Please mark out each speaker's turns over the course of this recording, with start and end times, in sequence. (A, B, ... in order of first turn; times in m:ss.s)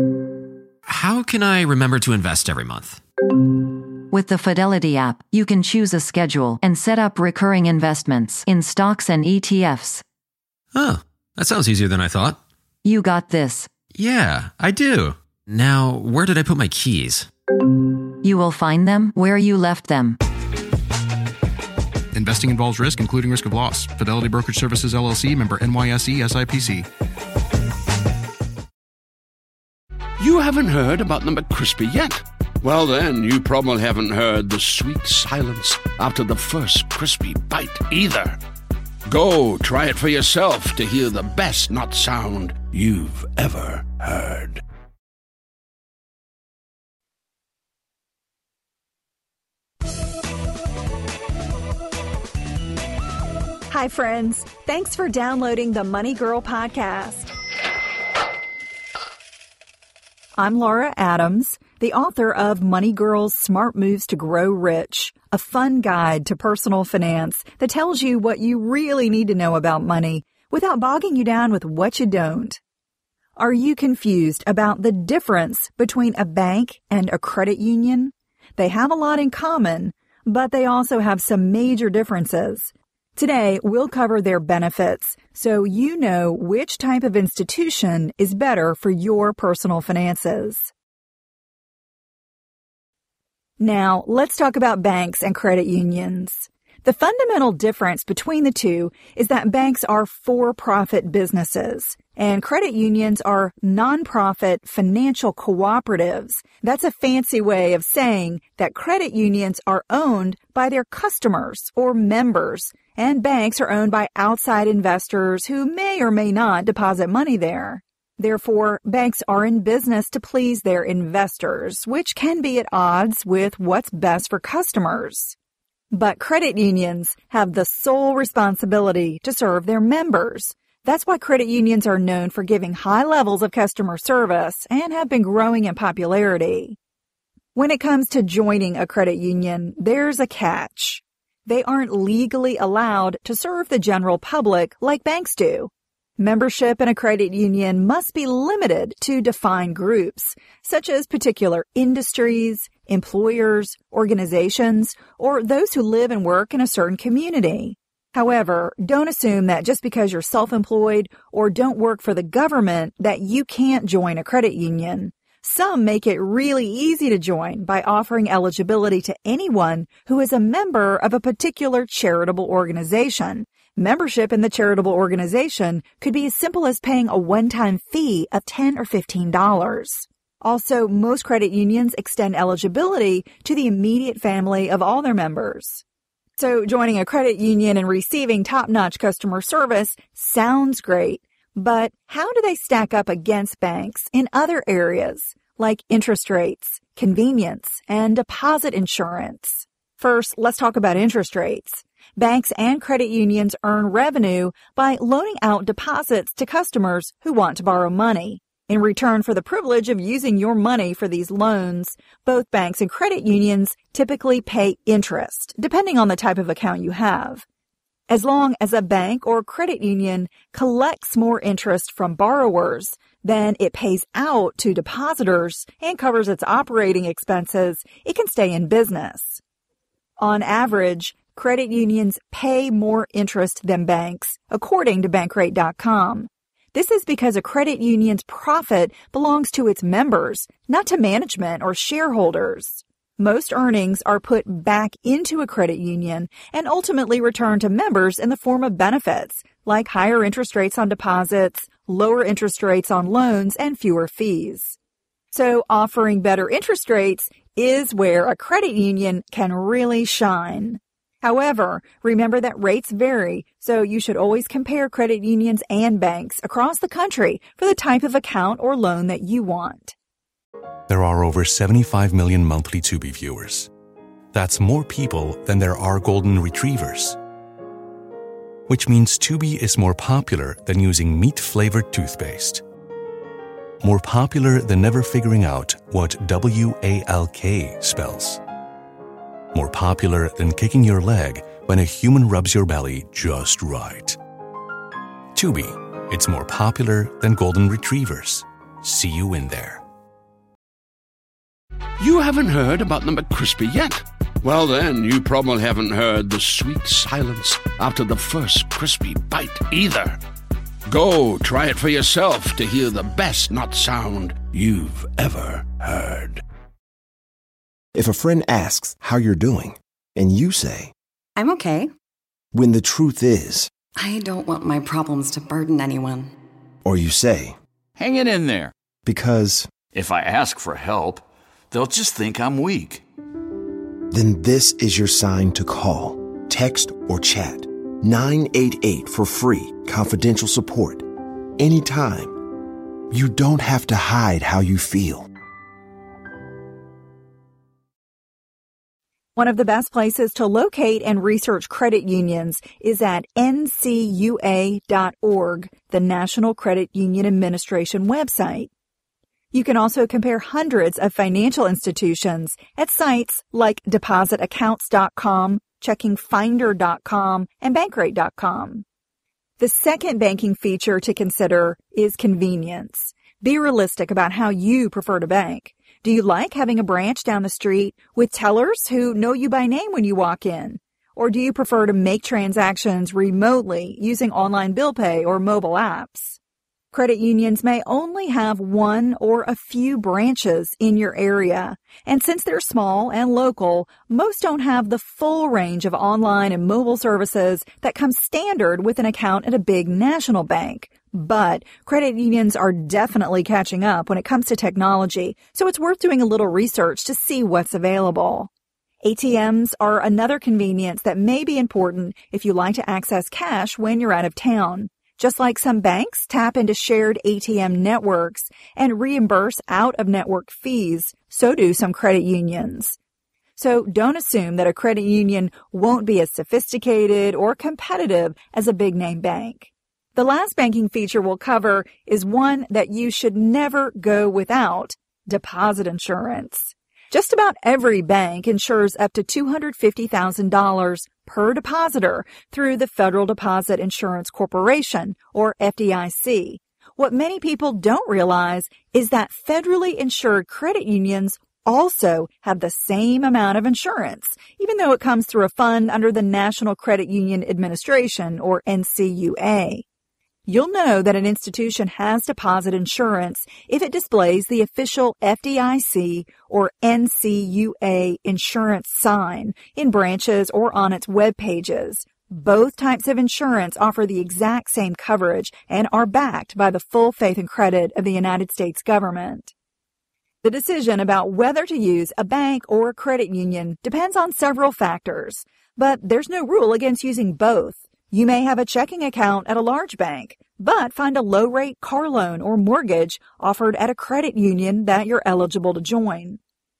0:00.8-0:03.0 A
0:04.1-0:10.0 B
0:10.7-0:12.4 A
0:12.8-0:13.7 B
0:13.9-0:17.3 A
0:18.2-0:20.2 B
0:22.1-0:26.9 C
0:30.2-0:38.3 D
0:39.1-0:44.6 D
0:53.7-0:57.3 E
1:00.4-1:12.6 E
1:13.4-1:30.7 E
1:33.6-2:05.4 E
2:05.9-2:16.8 E
2:17.5-3:05.8 E
3:06.4-3:37.4 E
3:38.1-3:49.4 E
3:50.2-4:14.8 E
4:15.3-4:29.9 E
4:30.9-4:33.7 F
4:34.3-4:37.2 F
4:38.7-4:42.6 F
4:43.8-4:48.4 F
4:49.5-4:54.2 F
4:55.3-4:59.8 F
5:02.0-5:10.2 D
5:10.9-5:16.4 D
5:17.9-5:20.9 G
5:21.4-5:21.9 H
5:22.5-5:23.7 G
5:24.0-5:26.3 H
5:26.8-5:27.6 G
5:28.0-5:28.7 I
5:29.0-5:29.7 G
5:29.9-5:33.0 I
5:34.1-5:42.4 G
5:43.1-5:45.3 G
5:49.4-5:58.7 E
5:59.5-6:08.8 E
6:09.6-6:26.4 E
6:26.9-6:48.5 E
6:49.0-7:03.0 E
7:03.6-7:39.8 E
7:40.5-7:59.5 E
8:00.4-8:16.4 E